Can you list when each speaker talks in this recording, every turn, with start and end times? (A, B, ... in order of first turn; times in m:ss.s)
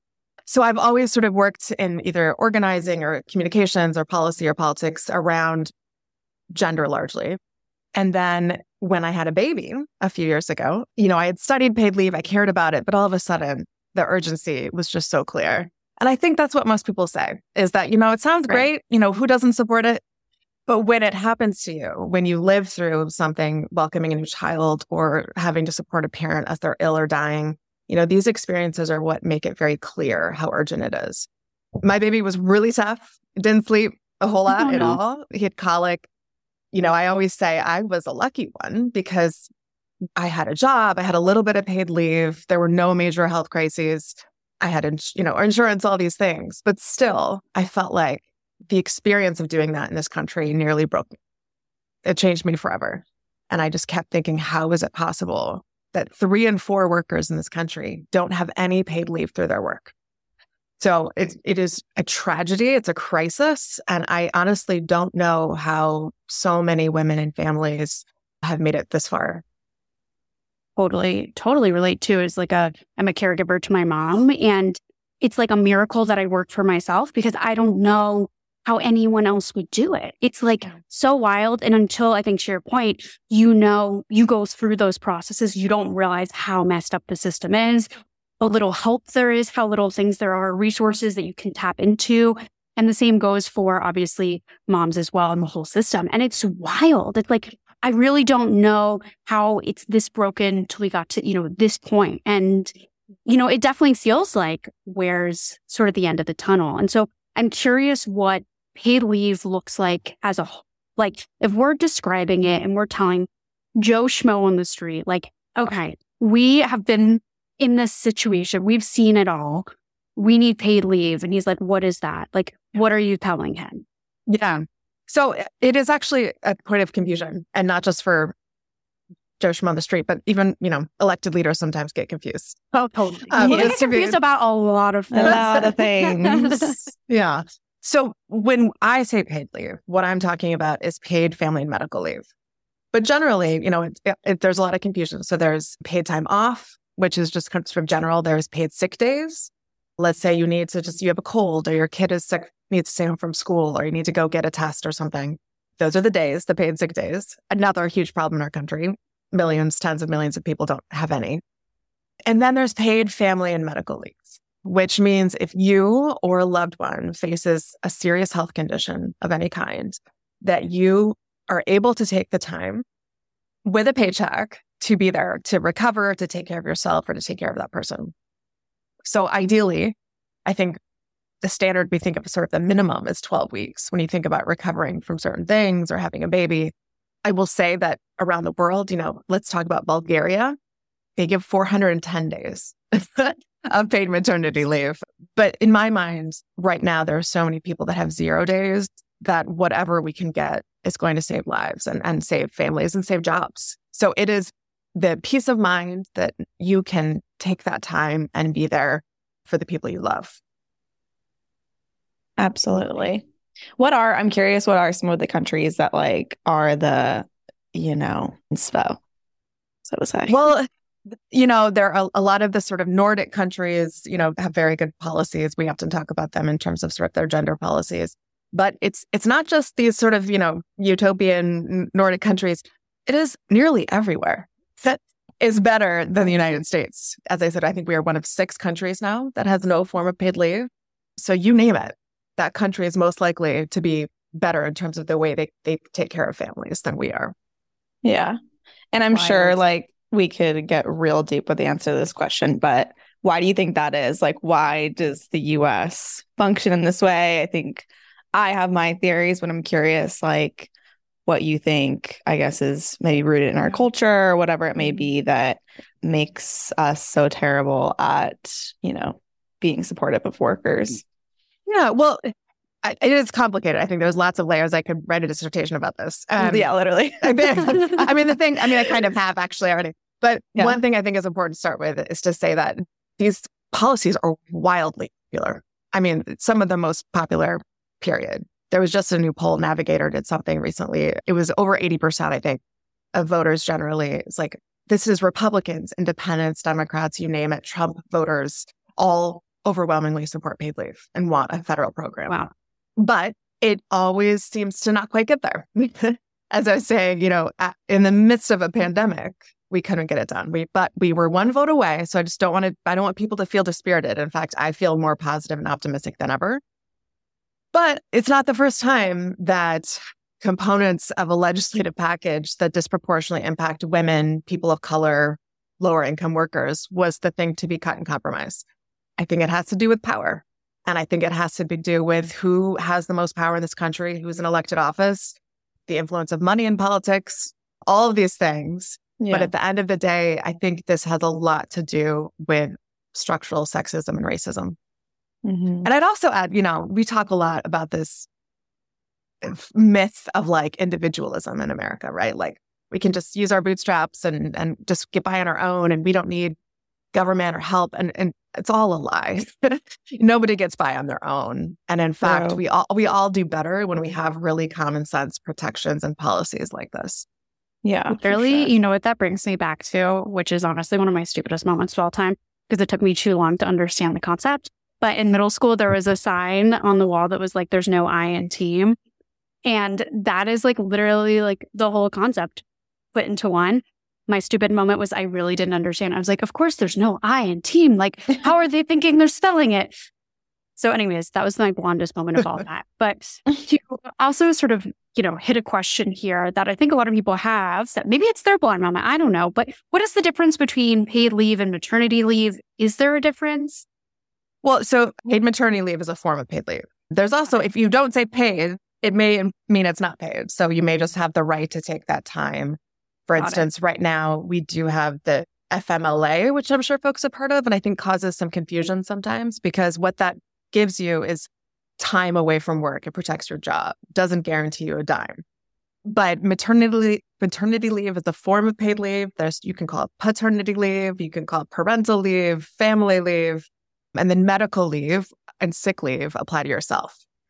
0:00.5-0:05.7 A
0:06.5-0:07.4 A
0:07.9-0:20.0 A
0:20.7-0:31.3 A
0:31.8-0:36.1 A
0:34.5-0:35.0 B
0:36.7-0:39.5 A
0:40.2-0:51.2 A
0:52.0-0:59.9 A
1:00.8-1:09.4 A
1:10.8-1:42.7 B
1:43.2-2:03.8 B
2:04.3-2:08.3 A
2:09.4-2:14.2 A
2:12.8-2:16.9 B
2:13.4-2:13.8 C
2:15.1-2:16.7 C
2:15.2-2:22.2 A
2:22.9-2:41.4 A
2:42.2-2:52.8 A
2:53.6-2:58.1 A
2:59.0-2:59.9 A
3:00.4-3:00.8 A
3:01.4-3:06.7 A
3:07.2-3:10.6 A
3:11.2-3:30.4 A
3:32.4-3:33.2 C
3:33.8-3:39.0 C
3:39.8-3:40.4 C
3:40.3-3:40.7 A
3:41.3-4:07.3 A
4:08.0-4:08.4 C
4:08.9-4:20.7 C
4:09.1-4:09.6 A
4:21.2-4:31.0 C
4:31.7-4:32.3 A
4:32.8-4:36.7 A
4:36.4-4:39.0 C
4:37.2-4:52.6 A
4:53.1-5:02.4 A
5:03.0-5:16.6 A
5:17.7-5:28.6 A
5:29.2-5:35.4 A
5:35.9-5:44.8 A
5:39.2-5:39.5 C
5:45.4-5:45.9 C
5:45.8-5:48.3 A
5:49.4-5:56.5 A
5:57.1-6:07.2 A
6:02.2-6:02.6 C
6:07.8-6:08.7 C
6:08.1-6:19.0 B
6:19.6-6:29.9 B
6:30.8-6:43.8 B
6:44.6-7:01.5 A
6:53.4-6:53.6 B
7:02.0-7:05.4 A
7:06.0-7:17.2 A